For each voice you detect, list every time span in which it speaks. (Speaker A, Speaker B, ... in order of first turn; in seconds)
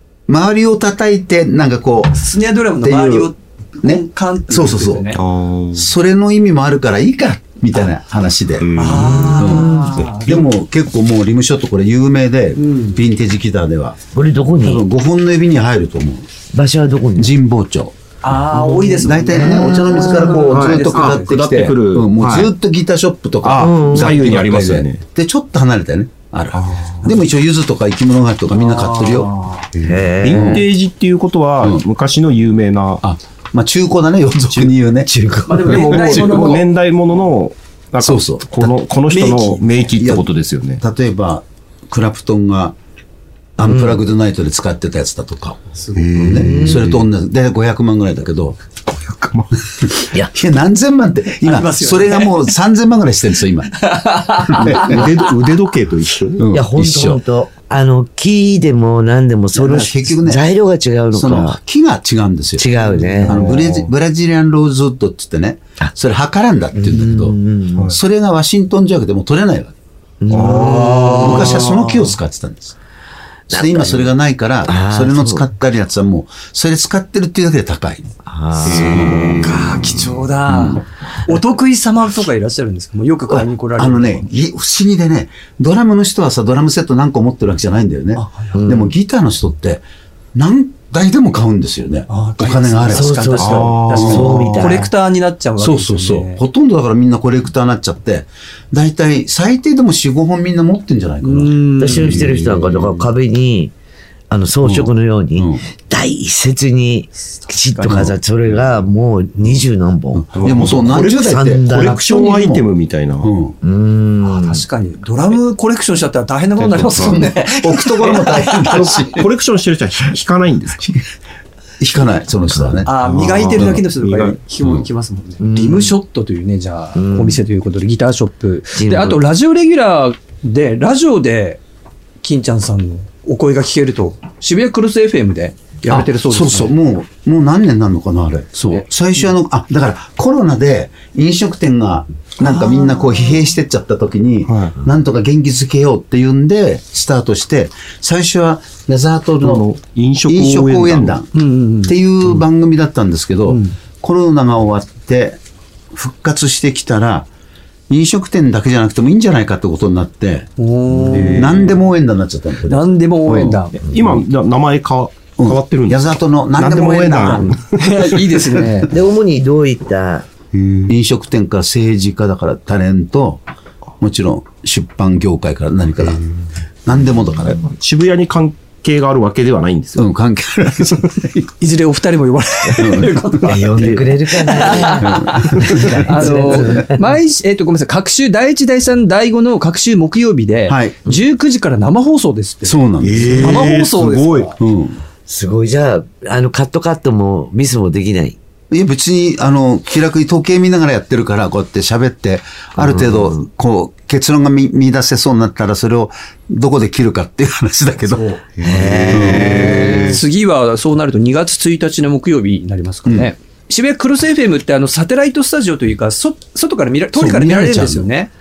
Speaker A: 0.3-2.2, 2.8-3.3, 3.8-5.1, 5.7-14.0, 14.6-16.3, 17.2-18.0, 19.0-29.3, 30.2-30.7, 33.0-35.1, 35.7-36.6, 38.0-38.8, 40.0-40.2, 40.8-42.8, 43.6-45.6, 46.1-48.6, 49.9-53.7, 54.5-55.0, 56.4-57.2, 59.5-60.5, 61.1-62.7, 63.2-67.4, 67.9-69.8, 70.3-72.8, 73.5-78.1, 78.7-79.8, 80.5-80.8, 83.3-93.2, 93.9-94.4, 95.6-102.6, 104.6-105.6, 107.9-108.1, 110.1-112.7, 113.2-113.6, 117.0-119.2, 121.8-122.9, 123.6-123.8, 124.6-124.9, 135.9-149.7, 150.3-151.3, 151.8-155.4, 155.9-157.3, 157.9-160.5, 161.1-162.9, 165.4-167.5, 170.9-173.4, 174.0-176.2, 176.9-177.6, 180.0-181.5, 182.7-183.2, 184.9-186.7, 190.7-191.1, 192.7-193.7, 194.6-195.0, 198.7-208.4, 209.1-209.9, 217.2-218.1
Speaker B: 2.1-5.2, 8.8-10.5, 12.6-13.0, 18.2-21.4, 28.5-29.7, 35.5-36.7, 39.1-39.7, 45.7-46.1, 51.4-52.5, 53.7-55.2, 79.4-84.3, 88.2-88.6, 92.1-96.4, 101.2-102.2, 107.4-108.1, 114.2-118.9, 122.8-131.6, 132.2-136.7, 142.4-143.1, 151.3-152.0, 153.5-153.7, 160.6-161.7, 162.7-163.8, 167.2-168.9, 181.6-194.6, 209.5-218.3
Speaker C: 5.1-5.9, 8.6-9.5, 20.5-22.5, 23.4-25.0, 26.5-27.1, 29.8-33.0, 34.5-34.8, 35.7-40.8, 45.9-47.0, 48.9-49.6, 54.6-56.4, 63.1-63.9, 70.3-72.0, 78.6-80.1, 93.4-94.8, 102.0-103.0, 110.4-113.3, 116.6-120.8, 122.9-124.4, 144.5-144.8, 149.4-151.2, 160.9-161.8, 163.3-168.2, 170.5-170.9, 177.4-180.1, 193.0-194.6, 208.4-210.2
Speaker D: 9.0-9.8, 14.1-14.8, 16.5-17.3, 19.2-20.4, 23.6-24.2, 29.8-30.6, 35.1-35.8, 43.6-44.1, 46.2-47.0, 56.5-61.6, 62.6-63.5, 66.8-67.9, 70.2-71.6, 73.5-74.1, 74.7-75.5, 78.2-79.8, 88.5-88.9, 92.9-94.9, 101.8-103.7, 104.3-110.2, 110.9-112.0, 113.6-114.6, 125.4-125.9, 127.0-127.4, 128.8-129.2, 168.9-170.3, 183.4-187.0, 195.3-198.4, 202.8-203.4, 208.6-210.2